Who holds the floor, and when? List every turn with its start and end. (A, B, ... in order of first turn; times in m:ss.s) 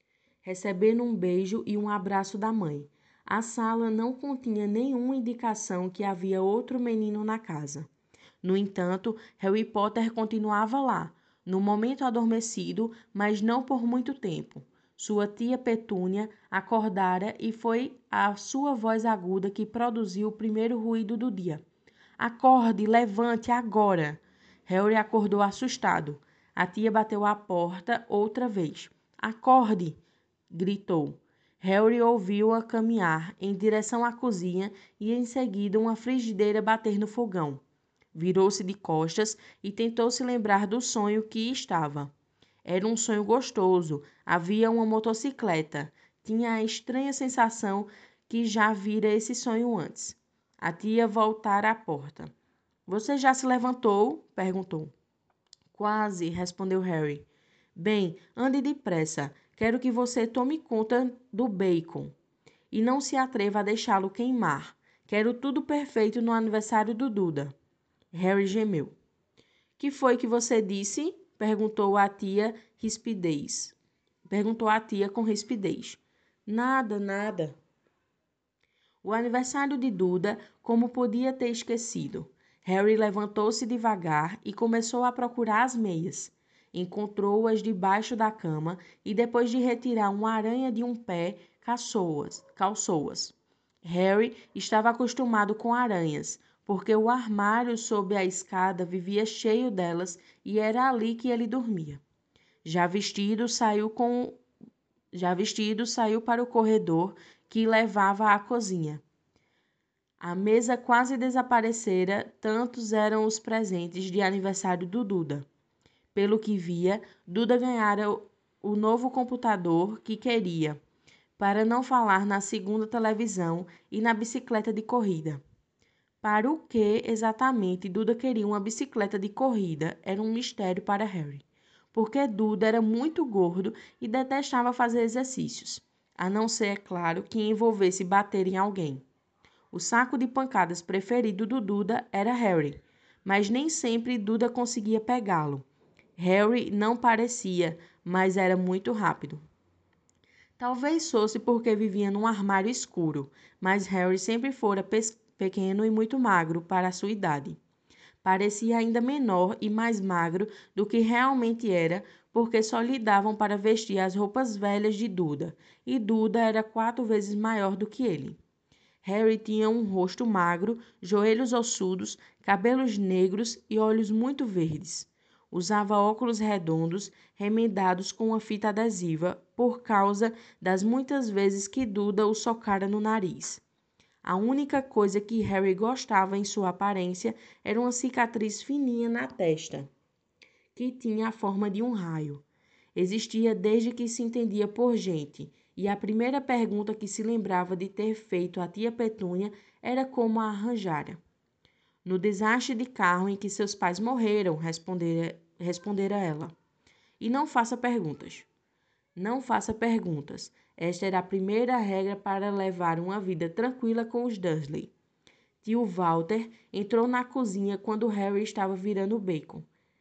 0:00.4-0:07.9 A
0:08.4-0:21.6 A
0:22.2-0:30.0 A
0:30.5-0:37.6 A
0:38.1-0:42.1 A
0:42.6-0:52.3 A
0:52.9-0:54.9 A
0:55.8-1:02.1 A
1:02.7-1:07.5 A
1:08.1-1:09.0 A
1:09.8-1:13.8 A
1:14.3-1:17.6 A
1:19.0-1:42.0 A
1:42.6-1:44.4 A
1:45.1-1:49.0 A
1:50.2-1:55.5 A
1:56.2-2:00.8 A
2:01.4-2:05.4 A
2:06.2-2:19.0 A
2:19.7-2:25.6 A
2:26.2-2:29.4 A
2:30.6-2:37.6 A
2:38.2-2:48.4 A
2:49.0-3:03.6 A
3:04.2-3:09.9 A
3:10.8-3:12.4 A
3:13.0-3:21.2 A
3:22.0-3:26.5 A
3:27.2-3:28.5 A
3:29.2-3:34.9 A
3:35.6-3:39.6 A